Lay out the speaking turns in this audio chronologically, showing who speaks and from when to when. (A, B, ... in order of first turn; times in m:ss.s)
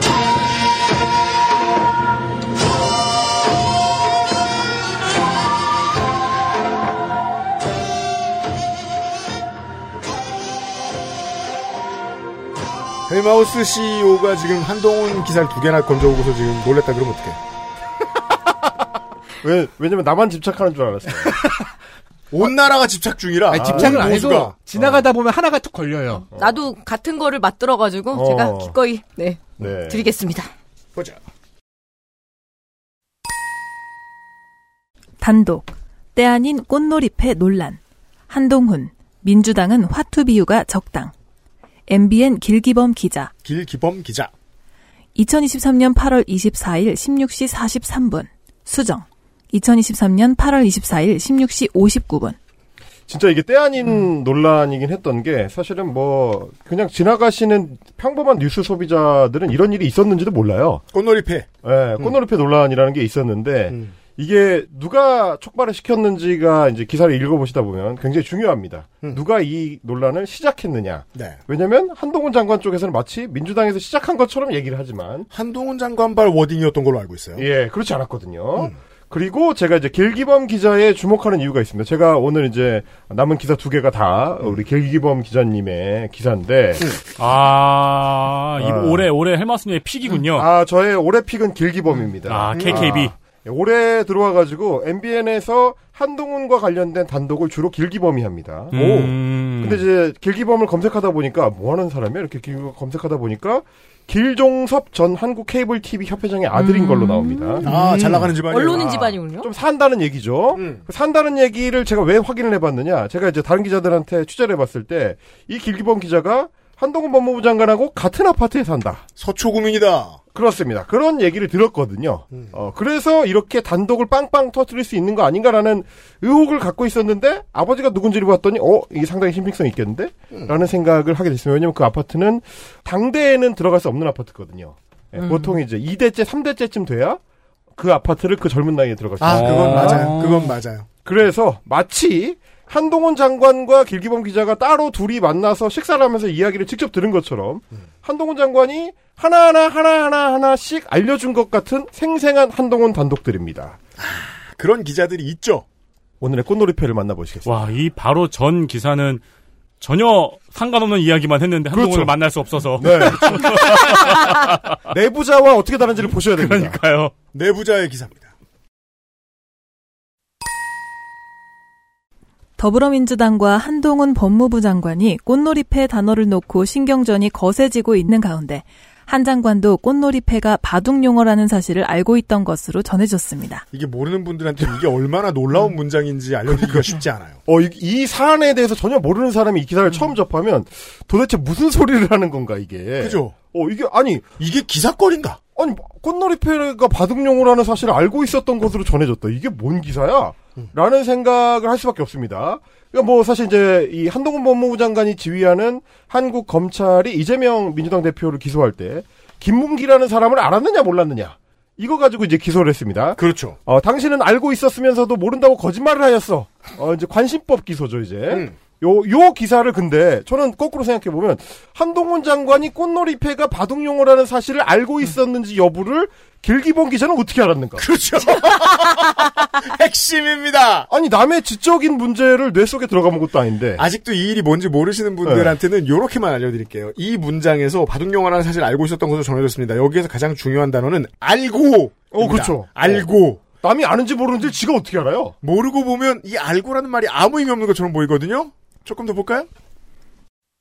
0:13.1-0:17.4 A
0:19.4-0:21.4 B
0:22.3-0:24.6 A
0:23.5-0:26.2 C
0:23.6-0:25.0 B
0:26.3-0:30.5 D
0:28.1-0:28.8 B
0:29.6-0:30.1 B
0:35.2-0:41.1 E
0:41.9-0:43.3 E
0:43.4-0:44.3 A
0:45.2-0:52.4 E
0:53.1-1:00.8 B
1:00.9-1:01.5 A
1:01.6-1:15.3 B
1:03.7-1:04.0 A
1:11.2-1:11.4 A
1:15.3-1:17.5 A
1:17.4-1:27.0 B
1:27.2-1:30.5 F
1:28.6-1:29.0 B
1:30.2-1:38.8 B
1:32.3-1:33.1 F
1:32.5-1:33.1 A
1:38.7-1:39.2 A
1:38.7-1:39.8 F
1:39.6-1:47.7 B
1:46.6-1:47.8 D
1:47.6-1:49.2 A
1:48.4-1:49.5 D
1:49.4-1:59.0 B
1:50.6-1:50.8 A
1:59.2-2:00.2 A
2:00.3-2:17.2 B
2:15.2-2:15.6 D
2:17.8-2:20.2 B
2:19.2-2:20.9 A
2:19.2-2:20.5 F
2:21.0-2:33.8 B
2:34.0-2:35.6 A
2:36.2-2:37.5 B
2:37.5-2:39.2 F
2:39.8-2:44.6 F
2:41.7-2:42.1 B
2:42.8-2:46.8 B
2:46.4-2:47.1 F
2:47.3-2:48.3 A
2:52.6-3:03.6 E
3:03.7-3:07.4 A
3:06.5-3:14.3 B
3:13.0-3:13.4 A
3:14.4-3:15.4 A
3:15.6-3:47.9 B
3:33.2-3:33.6 A
3:47.8-3:50.9 A
3:50.9-3:53.8 B
3:53.8-4:03.4 A
3:55.2-3:55.5 B
4:02.1-4:05.4 B
4:05.4-4:09.5 A